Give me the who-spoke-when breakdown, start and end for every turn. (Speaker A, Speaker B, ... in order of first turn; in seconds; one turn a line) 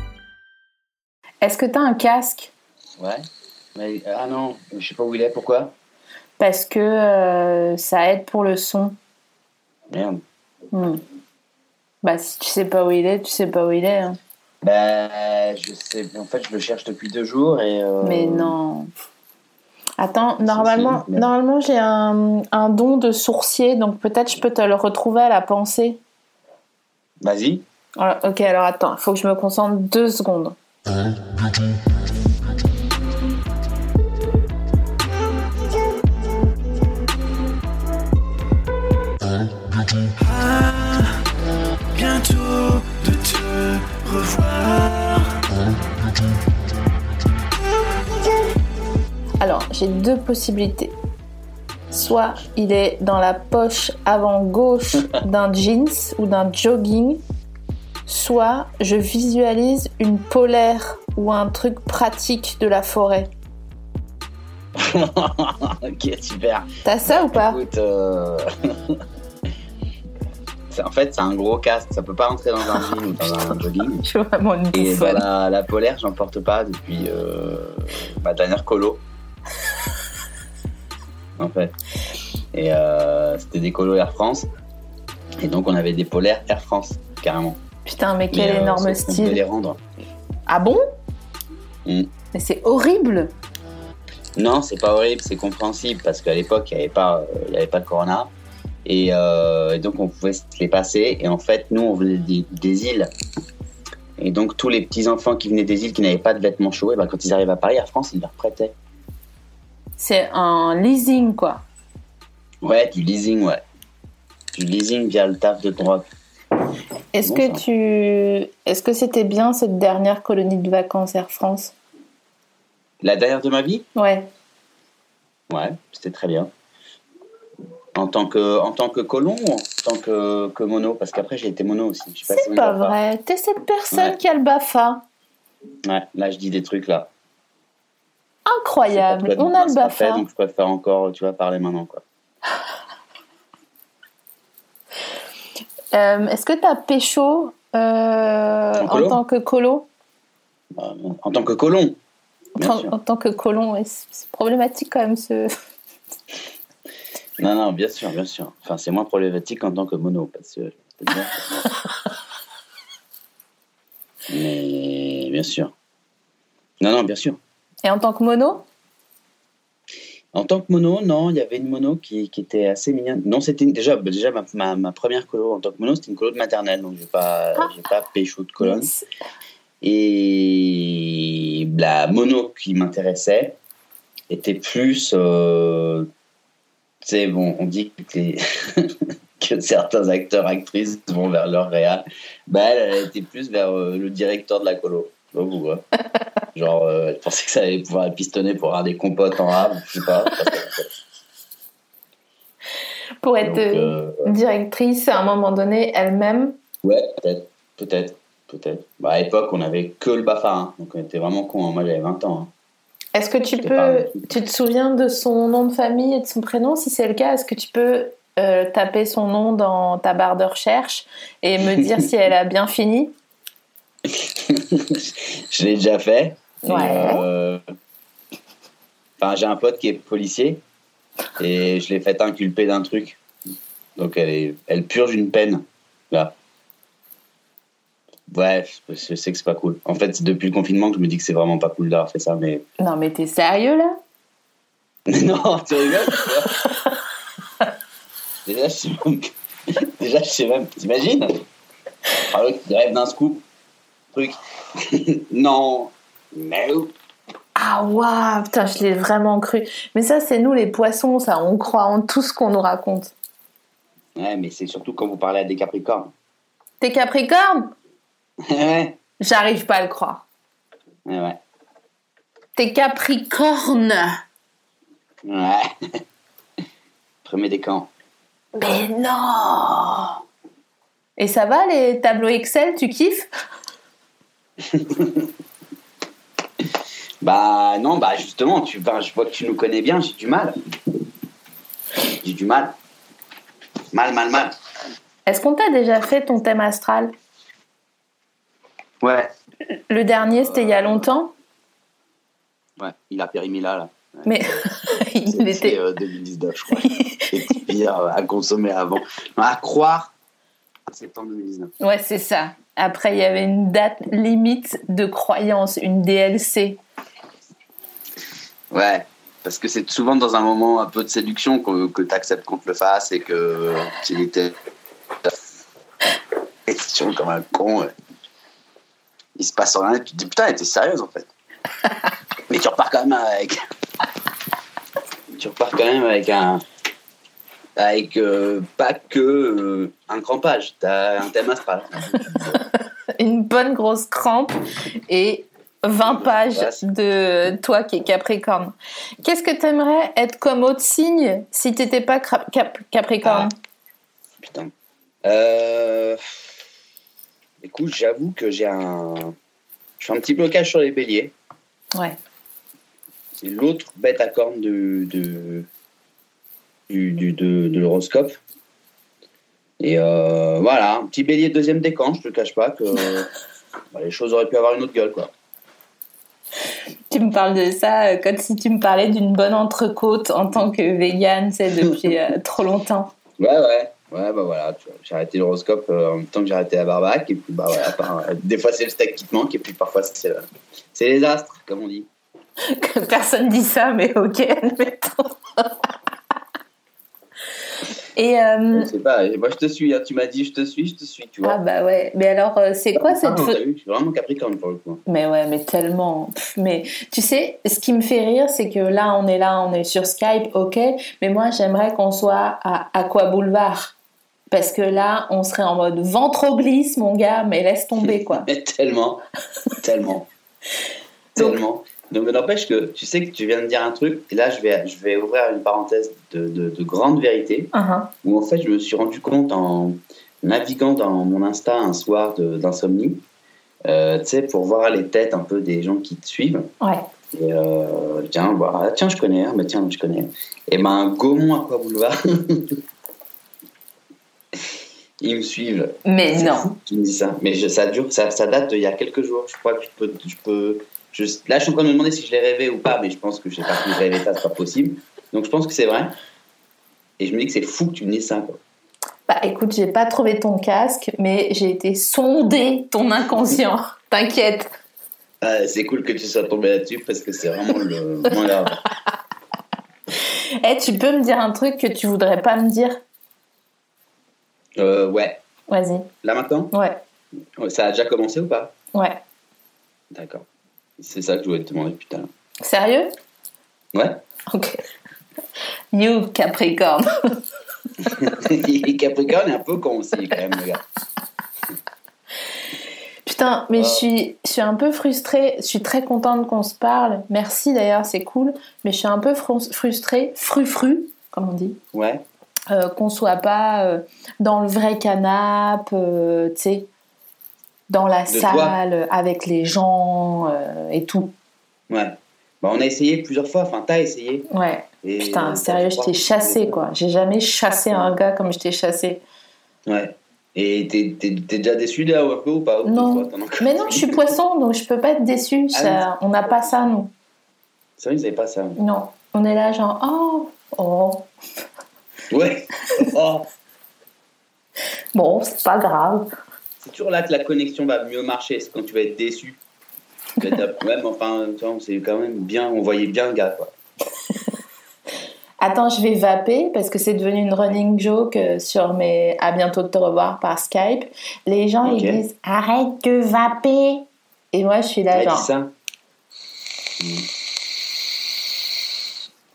Speaker A: 1.4-2.5
Speaker B: 3.0-5.7
Speaker A: 6.4-8.9
Speaker B: 9.9-10.2
Speaker A: 10.7-11.0
Speaker A: 12.0-14.2
Speaker B: 14.6-18.6
Speaker A: 18.0-18.9
Speaker A: 20.0-26.0
Speaker B: 20.4-21.3
Speaker B: 27.2-27.6
Speaker A: 28.0-30.6
Speaker B: 40.2-41.1
Speaker B: 41.9-45.4
Speaker A: 49.4-50.9
Speaker A: 51.9-57.2
Speaker A: 58.1-63.3
Speaker B: 64.7-69.0
Speaker A: 66.8-67.6
Speaker B: 70.7-74.0
Speaker A: 72.7-75.2
Speaker B: 74.7-79.0
Speaker B: 81.4-81.7
Speaker B: 82.5-84.5
Speaker B: 85.4-87.6
Speaker A: 87.8-89.4
Speaker B: 88.3-89.8
Speaker A: 90.5-90.8
Speaker B: 91.8-92.1
Speaker A: 92.3-93.3
Speaker B: 94.3-98.3
Speaker B: 98.8-103.1
Speaker B: 104.2-108.7
Speaker A: 110.0-111.6
Speaker B: 112.6-113.6
Speaker B: 114.5-116.1
Speaker A: 117.1-121.7
Speaker B: 117.2-117.6
Speaker B: 123.0-123.9
Speaker A: 124.0-124.3
Speaker B: 125.5-126.5
Speaker B: 127.9-132.9
Speaker A: 132.3-135.0
Speaker B: 133.9-134.2
Speaker B: 135.8-137.1
Speaker A: 138.4-140.2
Speaker B: 138.8-142.0
Speaker A: 145.9-149.9
Speaker B: 148.8-149.2
Speaker B: 150.7-152.0
Speaker B: 152.6-152.9
Speaker A: 152.6-155.5
Speaker B: 157.4-161.7
Speaker B: 164.3-165.7
Speaker B: 166.8-167.4
Speaker A: 167.8-168.7
Speaker B: 170.3-178.9
Speaker A: 178.6-179.0
Speaker B: 179.8-183.6
Speaker B: 184.3-186.1
Speaker B: 187.0-195.8
Speaker B: 196.5-200.9
Speaker A: 203.2-206.6
Speaker B: 203.4-204.3
Speaker B: 206.8-212.5
Speaker A: 213.1-223.1
Speaker B: 213.6-214.3
Speaker B: 224.0-227.6
Speaker A: 226.6-227.2
Speaker B: 229.2-230.6
Speaker B: 231.4-233.2
Speaker B: 233.9-236.3
Speaker B: 238.3-242.6
Speaker A: 242.8-244.0
Speaker B: 245.1-246.6
Speaker B: 248.4-251.4
Speaker B: 252.3-253.4
Speaker B: 254.1-256.9
Speaker A: 257.6-263.1
Speaker B: 264.1-266.1
Speaker A: 266.8-267.7
Speaker B: 268.4-268.9
Speaker A: 269.2-270.2
Speaker B: 271.1-271.4
Speaker A: 272.6-274.2
Speaker B: 275.2-276.0
Speaker B: 277.2-277.9
Speaker A: 278.5-280.2
Speaker A: 281.2-283.3
Speaker B: 284.6-285.3
Speaker B: 287.2-290.6
Speaker B: 292.2-292.7
Speaker B: 293.9-294.5
Speaker A: 295.2-297.1
Speaker B: 299.0-299.3
Speaker A: 299.9-301.3
Speaker B: 300.2-301.1
Speaker B: 302.8-310.1
Speaker A: 304.2-305.8
Speaker A: 306.8-307.6
Speaker B: 310.9-311.7
Speaker A: 311.8-316.8
Speaker B: 318.7-324.5
Speaker B: 326.6-327.9
Speaker B: 329.4-331.3
Speaker B: 332.5-333.6
Speaker B: 335.4-336.6
Speaker B: 337.8-342.6
Speaker A: 343.1-353.5
Speaker B: 346.0-346.8
Speaker B: 353.2-353.5
Speaker B: 354.4-354.7
Speaker B: 355.2-356.5
Speaker B: 357.6-359.3
Speaker B: 360.0-361.3
Speaker B: 363.4-365.7
Speaker B: 366.9-368.4
Speaker B: 369.8-373.3
Speaker B: 373.9-375.3
Speaker A: 377.1-383.1
Speaker B: 383.4-392.1
Speaker A: 392.6-395.7
Speaker A: 398.1-398.9
Speaker B: 398.7-401.6
Speaker A: 401.4-403.6
Speaker B: 402.9-405.0
Speaker A: 405.1-413.9
Speaker A: 414.5-418.5
Speaker B: 418.0-419.2
Speaker B: 419.8-420.3
Speaker B: 421.3-427.7
Speaker A: 427.7-428.1
Speaker B: 428.2-433.2
Speaker B: 433.8-436.7
Speaker B: 437.3-442.8
Speaker B: 445.2-456.1
Speaker A: 446.0-446.7
Speaker B: 457.2-458.6
Speaker A: 459.3-464.7
Speaker B: 465.4-468.8
Speaker A: 470.6-473.0
Speaker B: 474.8-475.4
Speaker A: 475.7-476.1
Speaker B: 476.2-476.7
Speaker A: 476.7-477.0
Speaker B: 477.6-478.7
Speaker A: 478.9-479.2
Speaker B: 480.1-480.4
Speaker B: 481.0-482.3
Speaker A: 482.6-483.1
Speaker B: 483.9-484.2
Speaker A: 484.5-484.8
Speaker A: 485.9-487.4
Speaker B: 488.0-490.8
Speaker A: 493.2-501.8
Speaker B: 493.8-494.0
Speaker B: 501.9-502.2
Speaker A: 502.7-506.9
Speaker A: 507.9-511.3
Speaker B: 508.3-508.8
Speaker B: 511.9-514.5
Speaker A: 514.5-519.2
Speaker B: 515.0-516.8
Speaker B: 519.9-524.3
Speaker A: 522.8-527.1
Speaker B: 525.7-526.7
Speaker B: 528.0-528.8
Speaker A: 528.8-531.3
Speaker B: 532.3-533.5
Speaker A: 535.1-536.3
Speaker B: 536.8-539.6
Speaker B: 540.4-543.7
Speaker A: 545.6-555.5
Speaker B: 551.8-552.2
Speaker B: 555.1-555.7
Speaker B: 557.0-557.3